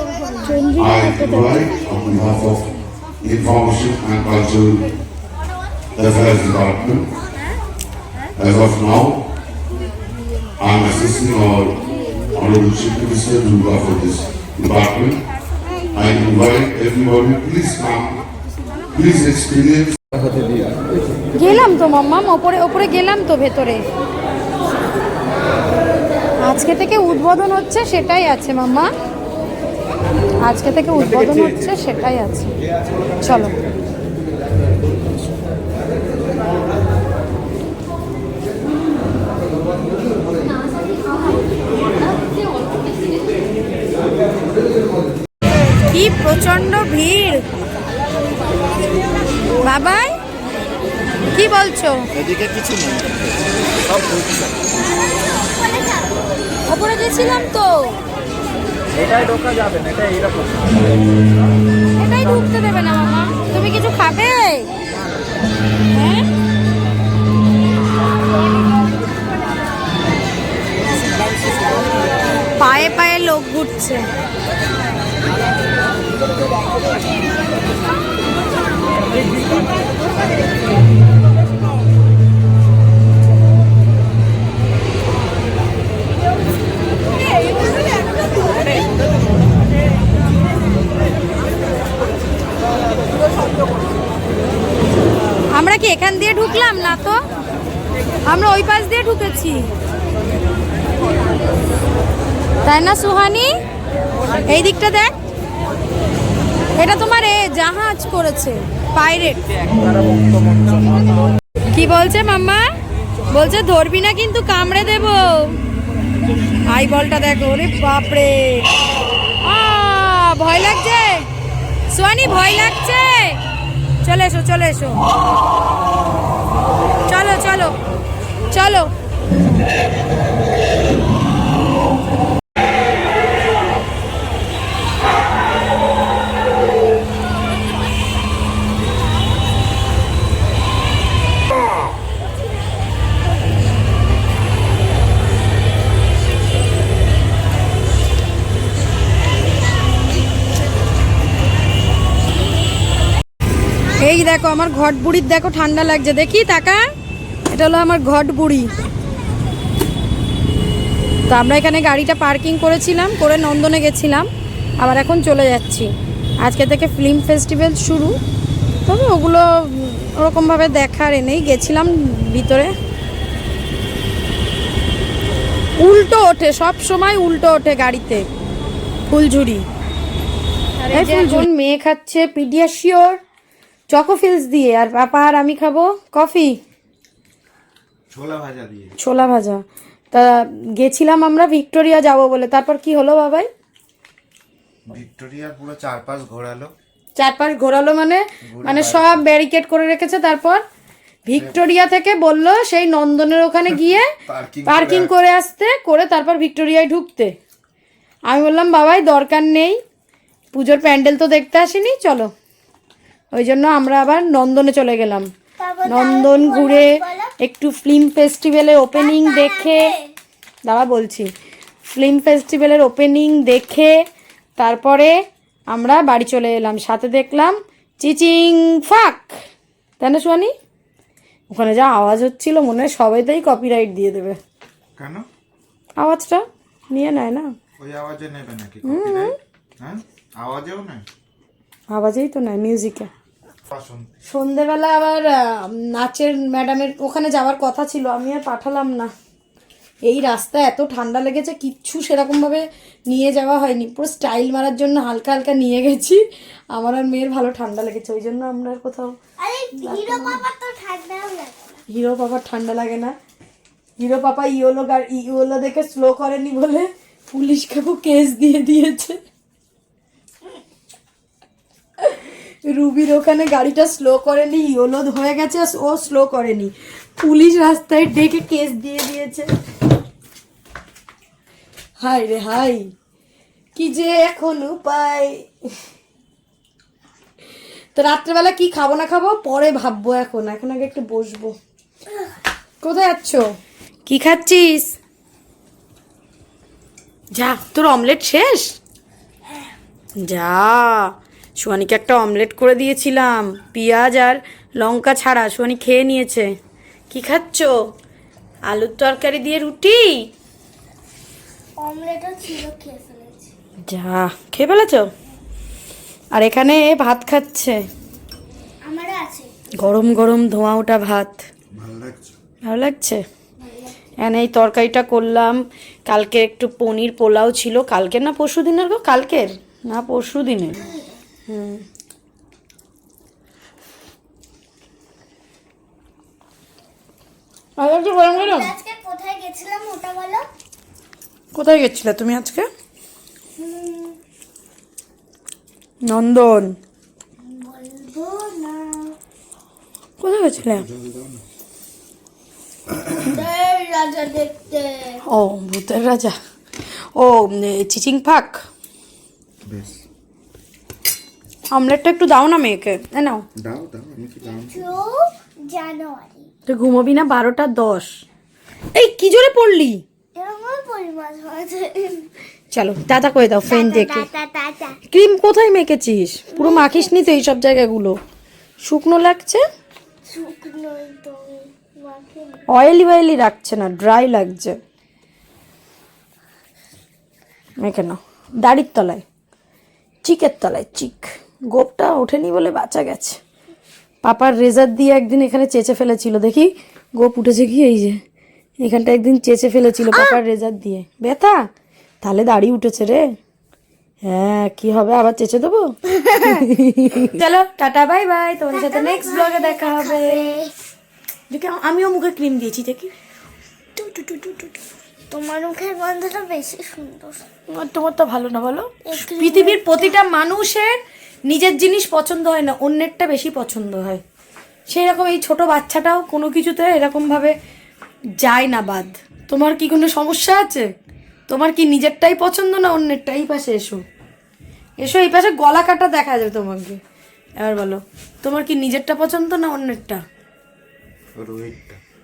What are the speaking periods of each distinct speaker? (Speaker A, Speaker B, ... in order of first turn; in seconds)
Speaker A: 0.4-1.6, 21.4-23.8, 26.4-28.9, 30.4-32.5, 33.2-33.5, 45.9-47.4, 49.6-50.1, 51.3-52.0, 56.7-58.0, 62.0-64.7, 65.9-66.3, 72.6-74.1, 95.5-97.2, 98.3-99.7, 102.7-103.5, 104.4-105.1, 106.7-109.4, 111.7-112.7, 113.3-115.6, 116.7-118.7, 119.4-121.2, 121.9-123.4, 124.0-125.0, 127.1-127.7, 128.5-128.9, 154.0-156.8, 157.5-158.7, 161.3-164.3, 164.8-165.9, 166.4-168.2, 168.9-172.7, 175.8-178.3, 179.1-179.7, 180.9-183.2, 183.9-186.6, 189.0-193.5, 197.2-200.6, 201.2-204.1, 204.7-207.3, 208.3-209.8, 210.5-212.3, 213.3-215.3, 215.9-219.9, 220.7-221.3, 221.9-223.9, 224.6-225.2, 225.7-229.4, 230.0-230.5, 231.5-234.4, 236.0-237.5, 238.9-239.4, 241.9-243.1, 244.2-249.1, 250.0-256.2, 256.7-259.2, 259.8-260.4, 261.9-263.1, 264.0-269.2, 272.0-279.5, 282.0-282.9, 283.8-285.5, 287.9-291.6, 292.8-293.4, 294.1-294.9, 297.3-298.7, 300.2-306.5, 307.1-307.8, 308.7-310.3, 313.9-315.1, 316.3-317.9, 319.8-321.4, 322.6-323.2, 324.2-330.8, 331.5-331.8, 337.8-338.7, 341.6-342.7, 346.0-346.8, 350.2-350.9, 355.2-356.4, 357.1-358.6, 361.7-363.4, 366.7-368.2, 368.9-370.0, 372.7-374.3, 375.1-378.2, 378.8-379.6, 382.7-384.8, 387.8-389.2, 390.2-393.4, 394.2-398.2, 398.8-401.6, 402.2-403.3, 404.2-405.9, 407.3-410.5, 411.5-413.1, 417.7-424.2, 424.9-427.6, 428.4-430.9, 431.5-434.0, 435.0-437.0, 437.6-440.2
Speaker B: 0.8-2.6, 3.2-4.9, 6.0-7.1, 8.4-9.2, 10.6-11.8, 12.3-15.2, 15.9-18.2, 18.9-20.0
Speaker C: 52.2-52.8, 188.1-188.9, 194.9-196.7, 198.4-199.2, 204.3-205.1, 235.0-235.3, 237.8-241.1, 243.7-244.1, 321.8-322.3, 350.6-351.4, 359.7-360.0, 363.6-364.9, 441.4-442.0
Speaker D: 52.2-54.5, 58.9-61.5, 109.6-111.3
Speaker E: 55.0-56.2, 158.7-159.9, 180.8-181.4, 215.6-217.3, 218.9-220.1, 259.4-261.8, 311.8-313.5, 318.9-319.5, 323.6-323.9, 338.3-340.4, 343.6-344.2, 347.4-349.1, 353.2-355.2, 364.4-366.5, 370.4-372.3, 373.7-375.0, 376.5-377.2, 380.3-382.7, 400.1-400.4, 406.1-407.2, 408.7-410.7, 413.9-417.4, 419.1-420.1